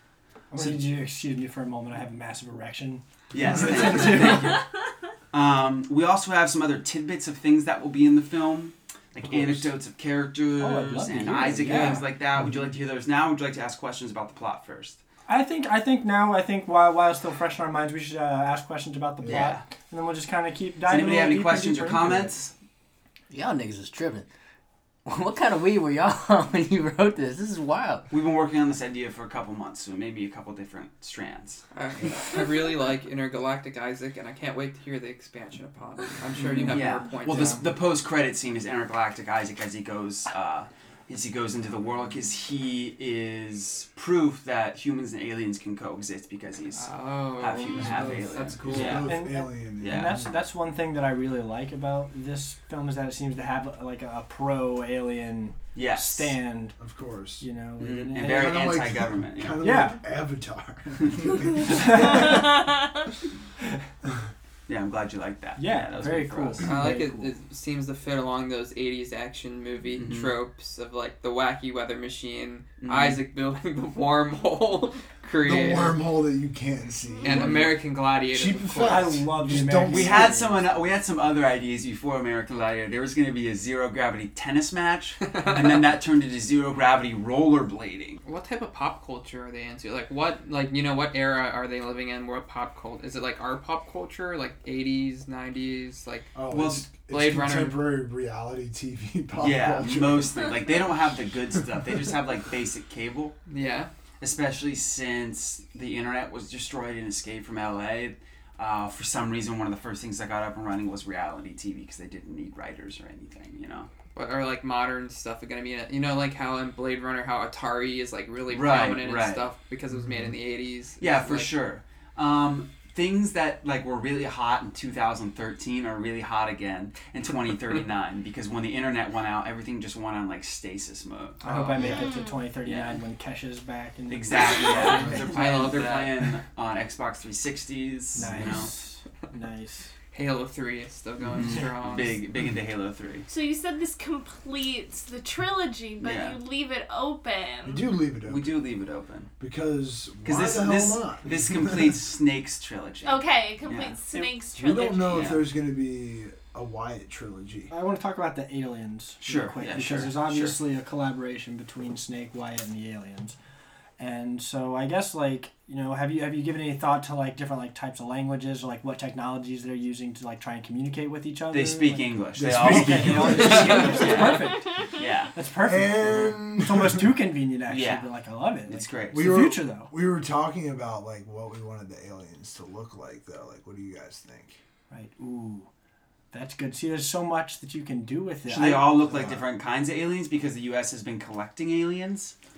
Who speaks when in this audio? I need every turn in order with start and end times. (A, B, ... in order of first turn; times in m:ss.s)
0:00.5-0:04.6 A
0:03.3-0:04.6 B
0:05.3-0:15.0 B
0:09.3-0:09.7 C
0:10.6-0:12.1 A
0:15.3-0:22.4 A
0:19.2-0:19.5 C
0:19.3-0:19.6 B
0:20.9-0:22.5 B
0:23.3-0:24.3 D
0:25.1-0:28.1 D
0:28.1-0:31.6 B
0:31.7-0:37.7 E
0:36.7-0:46.9 B
0:46.8-0:49.1 E
0:47.4-0:49.1 B
0:47.8-0:50.4 C
0:49.0-0:56.8 A
0:49.8-0:50.3 B
0:55.8-0:56.4 B
0:56.8-0:57.4 C
0:57.4-0:58.6 A
0:57.8-0:59.6 B
0:58.2-1:02.6 C
0:59.6-1:00.0 A
1:01.7-1:02.4 A
1:04.7-1:06.6 B
1:05.6-1:07.4 A
1:06.6-1:16.1 E
1:10.0-1:10.3 B
1:12.8-1:13.2 B
1:15.4-1:17.8 C
1:17.2-1:17.5 F
1:17.2-1:19.2 E
1:18.3-1:20.4 C
1:18.9-1:20.7 A
1:19.9-1:28.2 B
1:28.2-1:36.4 E
1:36.4-1:41.0 C
1:36.5-1:37.0 B
1:37.0-1:37.8 E
1:39.4-1:43.4 B
1:43.5-1:43.9 E
1:44.2-1:53.9 B
1:54.2-2:01.5 E
1:58.5-1:59.5 B
2:01.0-2:11.4 B
2:11.4-2:15.2 A
2:11.4-2:12.0 E
2:11.8-2:12.3 F
2:12.6-2:13.0 B
2:14.1-2:18.7 B
2:14.6-2:15.1 F
2:15.0-2:16.2 E
2:18.1-2:19.9 A
2:20.1-2:22.3 E
2:21.4-2:23.3 B
2:23.3-2:27.8 F
2:26.0-2:26.4 B
2:27.7-2:28.7 C
2:28.2-2:29.3 B
2:29.4-2:32.0 C
2:30.2-2:34.0 B
2:33.0-2:35.4 F
2:34.1-2:34.4 A
2:34.6-2:37.7 C
2:35.1-2:35.4 B
2:37.7-2:43.4 A
2:39.2-2:40.6 B
2:44.0-2:54.8 A
2:51.5-2:55.3 B
2:52.4-2:54.3 C
2:55.3-2:59.9 A
2:55.6-2:57.2 C
2:57.7-2:58.1 B
2:58.7-2:59.4 B
2:59.1-3:04.6 C
3:04.9-3:05.7 A
3:06.3-3:09.0 A
3:08.4-3:12.3 B
3:09.0-3:09.4 C